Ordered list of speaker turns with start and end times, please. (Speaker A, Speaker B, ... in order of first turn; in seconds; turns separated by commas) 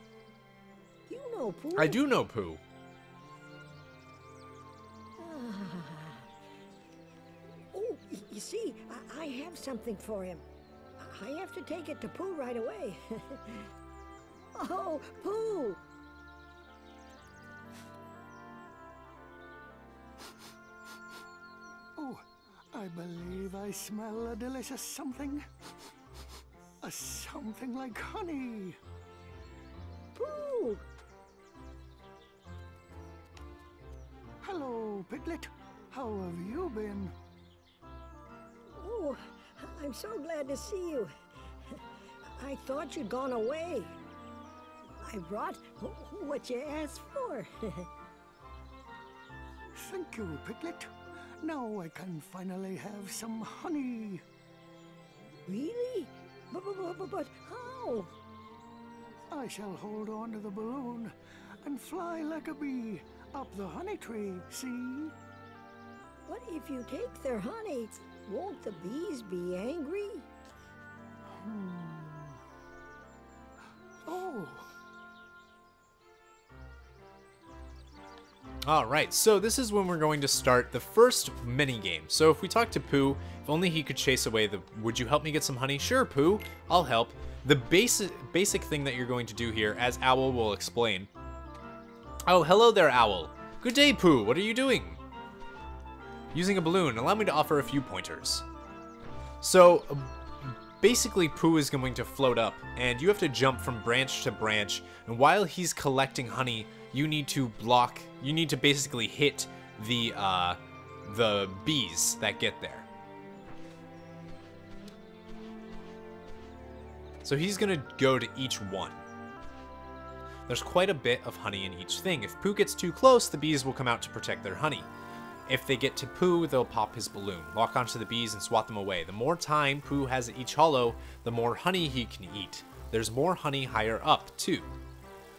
Speaker A: 1.1-2.0, Speaker B: 1.8-2.6, Speaker A: 5.2-6.2, Speaker A: 7.7-10.4, Speaker A: 11.0-13.7, Speaker A: 14.5-15.8, Speaker C: 21.9-25.7, Speaker C: 26.8-28.8, Speaker A: 30.1-30.9, Speaker C: 34.4-37.1, Speaker A: 38.7-41.1, Speaker A: 42.4-44.0, Speaker A: 45.0-47.9, Speaker C: 49.7-54.2, Speaker A: 55.5-58.1, Speaker C: 59.3-65.1, Speaker A: 66.3-70.3, Speaker C: 71.2-72.4, Speaker C: 74.0-74.7, Speaker B: 78.7-91.1, Speaker B: 92.3-95.0, Speaker B: 96.3-98.5, Speaker B: 99.4-112.9, Speaker B: 117.2-119.0, Speaker B: 120.5-124.9, Speaker B: 125.5-134.7